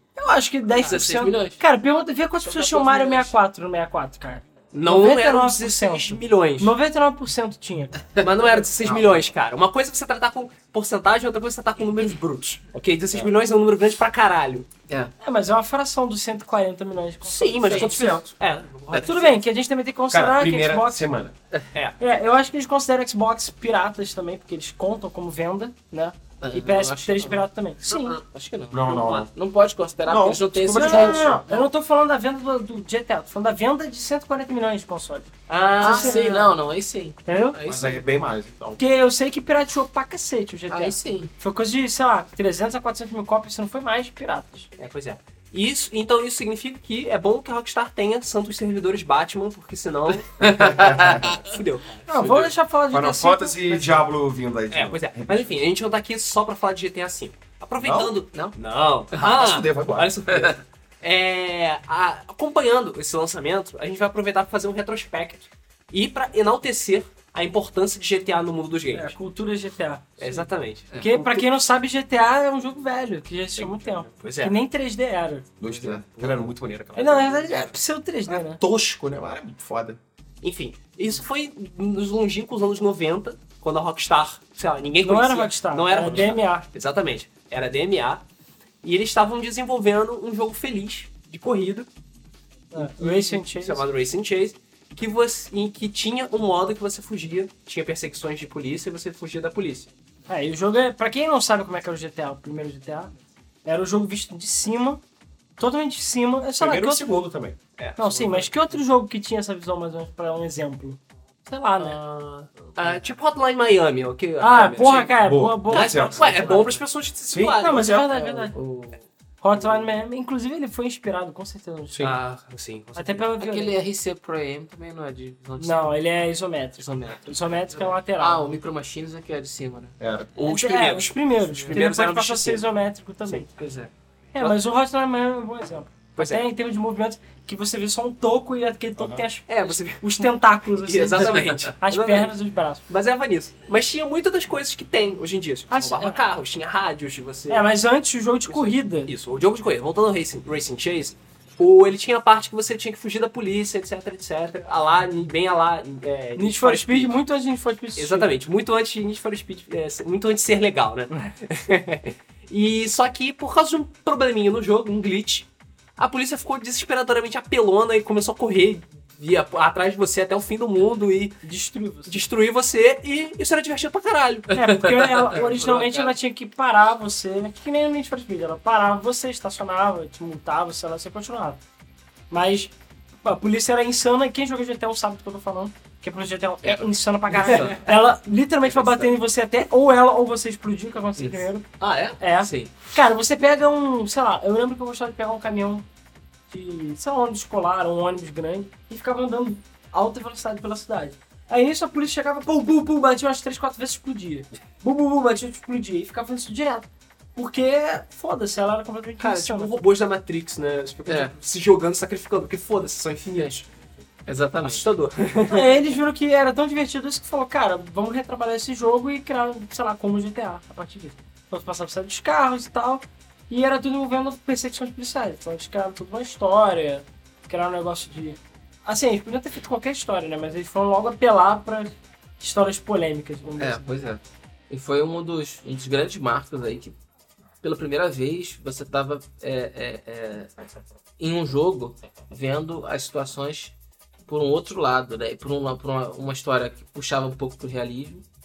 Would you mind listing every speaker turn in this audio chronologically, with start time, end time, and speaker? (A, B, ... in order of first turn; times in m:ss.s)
0:00.2-0:08.0 A
0:00.8-0:01.6 B
0:02.4-0:03.3 B
0:04.7-0:06.7 C
0:08.1-0:09.2 B
0:08.2-0:14.7 C
0:14.9-0:15.1 B
0:15.2-0:18.3 A
0:17.2-0:19.4 C
0:17.7-0:18.3 D
0:18.9-0:19.2 B
0:19.0-0:21.2 A
0:20.1-0:21.3 D
0:22.0-0:28.2 A
0:26.4-0:31.7 B
0:28.7-0:29.3 D
0:28.8-0:29.3 C
0:30.0-0:31.5 D
0:30.7-0:36.3 A
0:35.5-0:36.6 C
0:35.8-0:38.0 B
0:37.2-0:37.6 A
0:37.6-0:38.8 D
0:38.8-0:44.7 A
0:40.7-0:41.3 B
0:44.8-0:52.5 C
0:50.4-0:51.5 B
0:50.5-0:51.4 D
0:52.1-0:54.0 A
0:52.9-0:55.4 D
0:54.7-1:09.2 C
0:57.8-0:58.2 D
0:59.1-1:00.2 D
1:00.3-1:00.6 B
1:08.9-1:10.5 A
1:10.2-1:11.5 C
1:11.0-1:15.4 A
1:14.1-1:14.5 C
1:15.6-1:17.8 D
1:15.6-1:16.3 B
1:16.9-1:18.6 A
1:18.3-1:20.0 D
1:20.4-1:28.2 C
1:25.0-1:26.7 A
1:28.8-1:31.9 C
1:32.7-1:33.8 A
1:32.7-1:39.9 C
1:40.3-1:43.1 A
1:43.6-1:45.0 A
1:45.6-1:47.0 A
1:46.6-1:47.6 D
1:47.8-1:48.5 C
1:48.0-1:52.0 A
1:51.8-1:58.0 C
1:54.4-1:56.6 A
1:55.2-1:56.7 D
1:56.4-1:56.7 B
1:57.3-1:58.3 D
1:57.5-1:58.5 A
1:58.1-1:59.1 B
1:59.4-2:02.1 A
2:02.0-2:03.3 C
2:02.9-2:03.7 A
2:03.4-2:05.9 B
2:05.6-2:08.4 A
2:06.8-2:07.3 B
2:08.2-2:10.0 B
2:10.0-2:10.5 D
2:10.4-2:12.6 C
2:10.4-2:13.5 A
2:13.6-2:13.9 B
2:14.3-2:22.8 A
2:16.2-2:16.4 C
2:19.0-2:19.2 D
2:19.5-2:22.3 C
2:21.1-2:21.7 B
2:22.9-2:27.6 C
2:25.7-2:26.2 A
2:27.5-2:29.1 A
2:28.5-2:37.2 C
2:36.4-2:38.3 A
2:38.0-2:51.4 C
2:51.4-2:52.2 A
2:52.0-2:54.6 C
2:54.5-3:01.6 A
2:54.6-2:56.2 B
3:02.3-3:02.7 A
3:03.2-3:11.6 A
3:06.6-3:08.0 B
3:08.6-3:09.1 B
3:11.2-3:12.7 B
3:12.2-3:15.8 A
3:16.5-3:29.8 A
3:29.2-3:33.6 C
3:31.1-3:31.3 B
3:33.3-3:33.6 B
3:34.2-3:34.8 B
3:34.6-3:35.9 C
3:35.5-3:53.9 A
3:53.6-3:57.0 B
3:57.6-4:03.7 B
4:04.2-4:08.2 B